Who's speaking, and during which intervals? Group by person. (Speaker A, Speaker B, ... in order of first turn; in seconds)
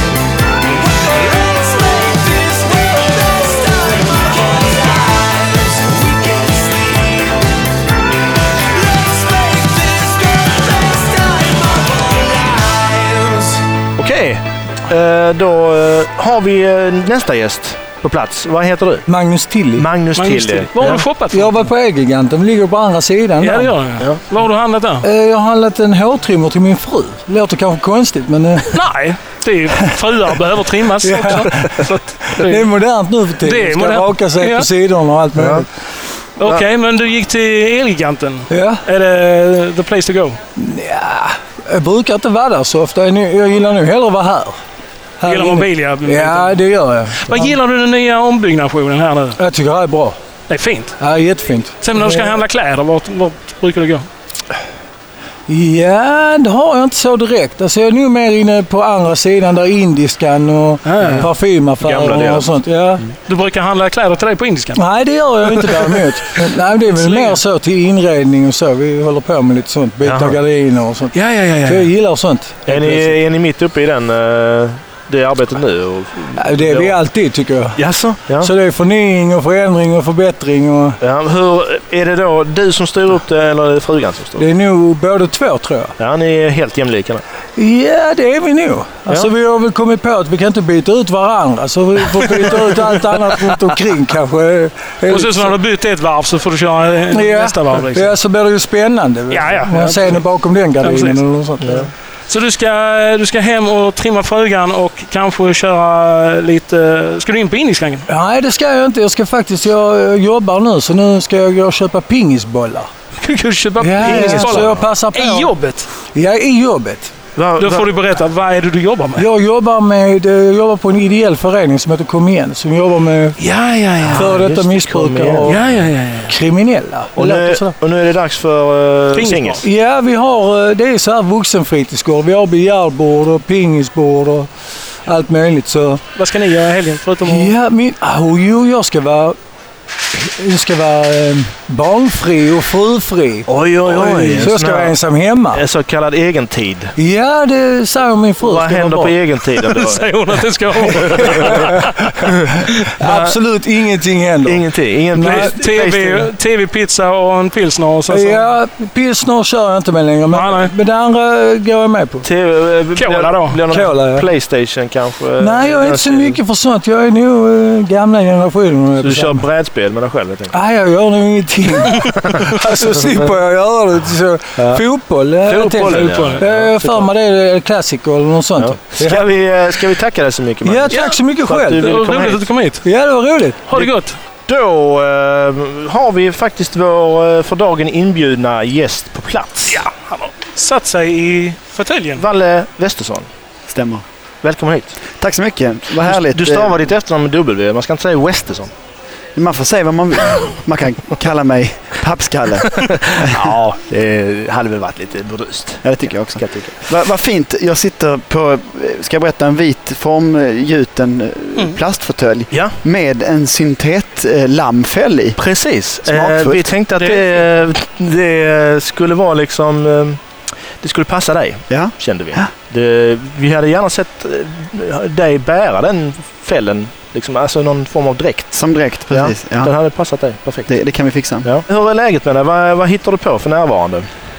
Speaker A: 1.0-7.2, 8.8-13.6
Speaker B: 14.0-19.0, 19.7-21.0, 31.6-31.9, 35.4-35.7, 61.0-61.3, 61.8-62.5, 70.0-70.4, 72.7-77.0, 77.8-78.5, 81.0-84.5, 86.0-87.2, 101.6-101.9, 114.0-114.9, 117.3-117.9, 124.0-125.8, 127.2-129.6, 143.5-144.9, 145.5-146.9, 148.4-150.1, 151.1-151.7, 153.0-153.3, 154.4-156.3, 162.2-166.4, 169.0-170.5, 174.6-174.8, 175.4-177.1, 178.6-182.5, 184.5-189.8, 192.2-193.3, 194.4-194.9, 196.1-198.7, 202.8-206.8, 215.4-220.2, 220.8-228.6, 229.1-230.7, 231.4-234.1
Speaker C: 19.1-19.9, 20.9-23.7, 25.0-28.8, 31.0-31.8, 32.4-35.7, 38.5-38.8, 40.6-44.6, 45.2-47.5, 49.4-50.2, 51.0-52.4, 55.5-63.0, 64.8-73.2, 76.3-81.0, 84.4-86.0, 87.6-95.5, 97.1-101.9, 108.1-112.9, 113.8-115.5, 116.1-117.1, 119.2-123.4, 124.1-125.7, 126.3-127.8, 129.6-134.5, 135.1-136.0, 137.2-139.4, 140.1-145.6, 147.0-149.2, 151.1-151.8, 153.0-155.6, 158.1-162.2, 163.7-164.3, 165.4-169.4, 170.5-179.2, 180.6-182.0, 182.8-183.7
Speaker D: 20.2-21.6, 23.4-25.0, 28.7-32.7, 33.4-34.7, 36.4-40.4, 45.2-46.6, 47.2-49.4, 50.5-51.0, 51.8-54.1, 60.8-61.3, 63.3-64.8, 65.5-66.0, 67.0-67.4, 71.1-71.9, 95.1-98.1, 99.3-100.2, 100.8-101.2, 102.3-108.0, 113.2-115.9, 117.6-119.2, 123.4-124.3, 125.5-126.3, 129.1-129.6, 136.2-137.5, 149.6-152.1, 155.2-158.5, 160.3-160.7, 162.9-163.6, 175.8-176.4, 180.9-181.2, 181.8-182.8, 183.7-184.2, 189.7-192.2, 217.0-217.4
Speaker E: 193.7-194.0, 195.2-196.8, 199.3-203.5, 205.8-215.4, 216.0-216.7, 221.7-222.5, 228.5-229.7, 230.7-231.5